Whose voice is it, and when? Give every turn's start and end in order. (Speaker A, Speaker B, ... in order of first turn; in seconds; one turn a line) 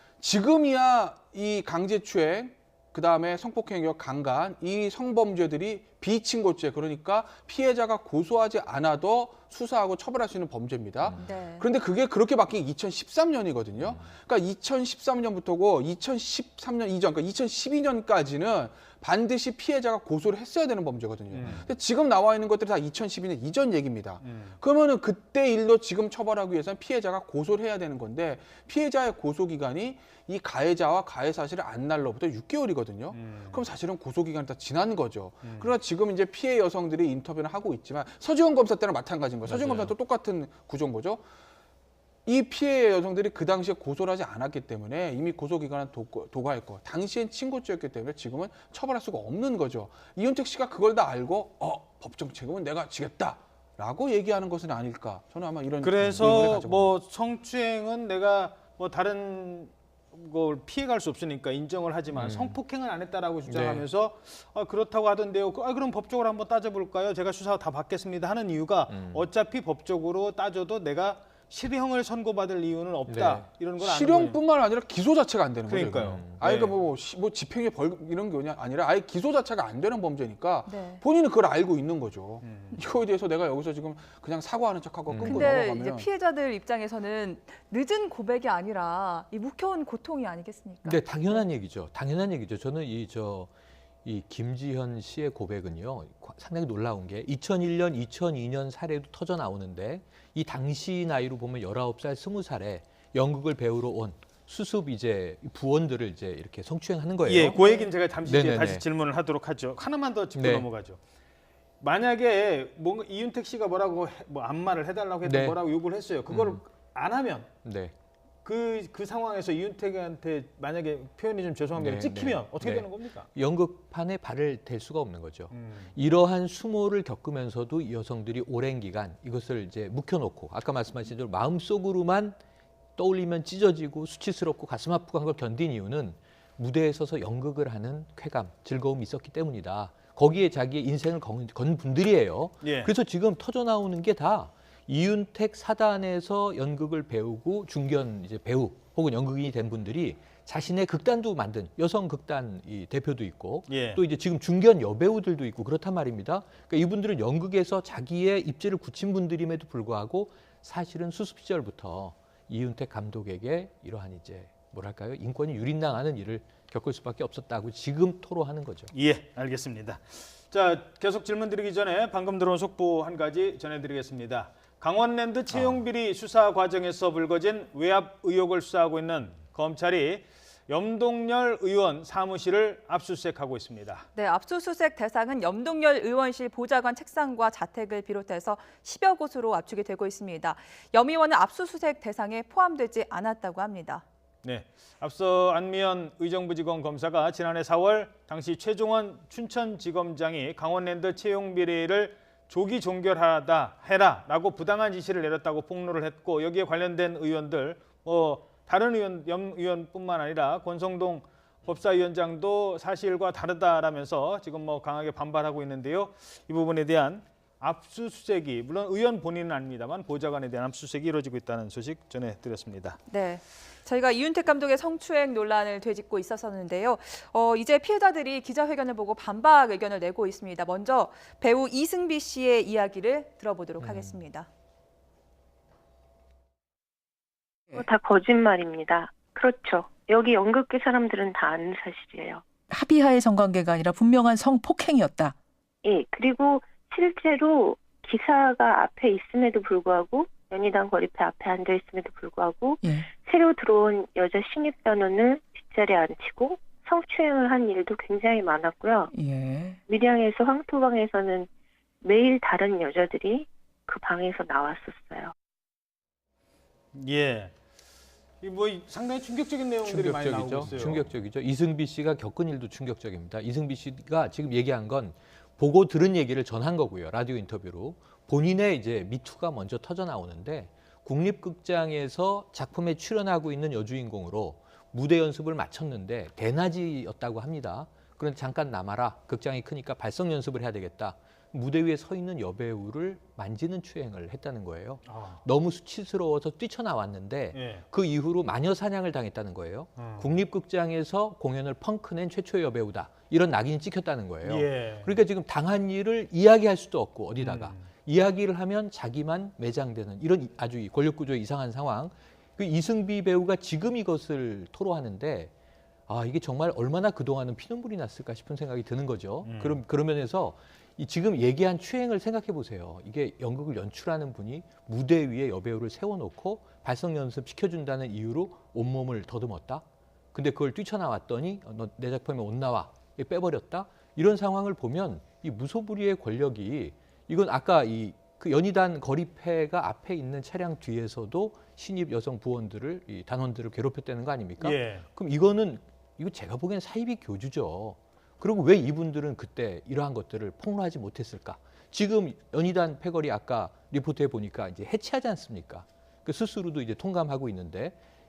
Speaker A: 0.2-41.2
Speaker B: 11.0-11.3
Speaker C: 11.2-11.7
Speaker B: 13.8-14.1
Speaker D: 21.3-21.7
Speaker B: 21.4-21.6
Speaker D: 24.2-24.6
Speaker D: 33.1-33.6
Speaker D: 35.4-35.7
Speaker D: 39.5-39.9
Speaker A: 42.2-56.9
Speaker D: 55.8-74.4
Speaker B: 56.0-56.5
Speaker B: 62.1-62.6
Speaker B: 63.5-63.9
Speaker B: 68.9-69.3
Speaker B: 73.0-73.5
Speaker A: 73.8-86.1
Speaker D: 75.7-76.7
Speaker B: 76.0-76.4
Speaker C: 80.7-81.0
Speaker D: 82.4-82.8
Speaker B: 85.1-85.5
Speaker C: 85.2-91.5
Speaker B: 90.8-93.5
Speaker B: 94.0-108.8
Speaker D: 107.2-111.0
Speaker B: 110.3-110.7
Speaker D: 111.8-117.5
Speaker B: 115.2-115.6
Speaker B: 116.3-116.6
Speaker B: 117.6-117.9
Speaker D: 118.4-123.3
Speaker B: 121.8-132.4
Speaker D: 125.5-125.9
Speaker B: 132.9-168.9
Speaker D: 142.6-142.9
Speaker D: 153.7-154.0
Speaker D: 168.9-184.1
Speaker B: 175.5-175.8
Speaker C: 184.1-194.0
Speaker D: 194.4-223.0
Speaker C: 223.1-234.5
Speaker B: 233.8-234.2
Speaker E: 237.7-242.4
Speaker F: 242.7-245.3
Speaker E: 245.8-259.1
Speaker F: 252.8-253.1
Speaker F: 259.1-259.8
Speaker E: 259.9-261.5
Speaker E: 262.0-265.3
Speaker D: 266.9-267.5
Speaker D: 268.4-271.1
Speaker B: 269.8-315.5
Speaker D: 295.1-295.4
Speaker D: 297.5-297.8
Speaker D: 300.0-300.4
Speaker D: 304.4-305.2
Speaker D: 307.4-307.9
Speaker B: 316.1-357.9
Speaker D: 319.4-319.8
Speaker D: 344.6-345.1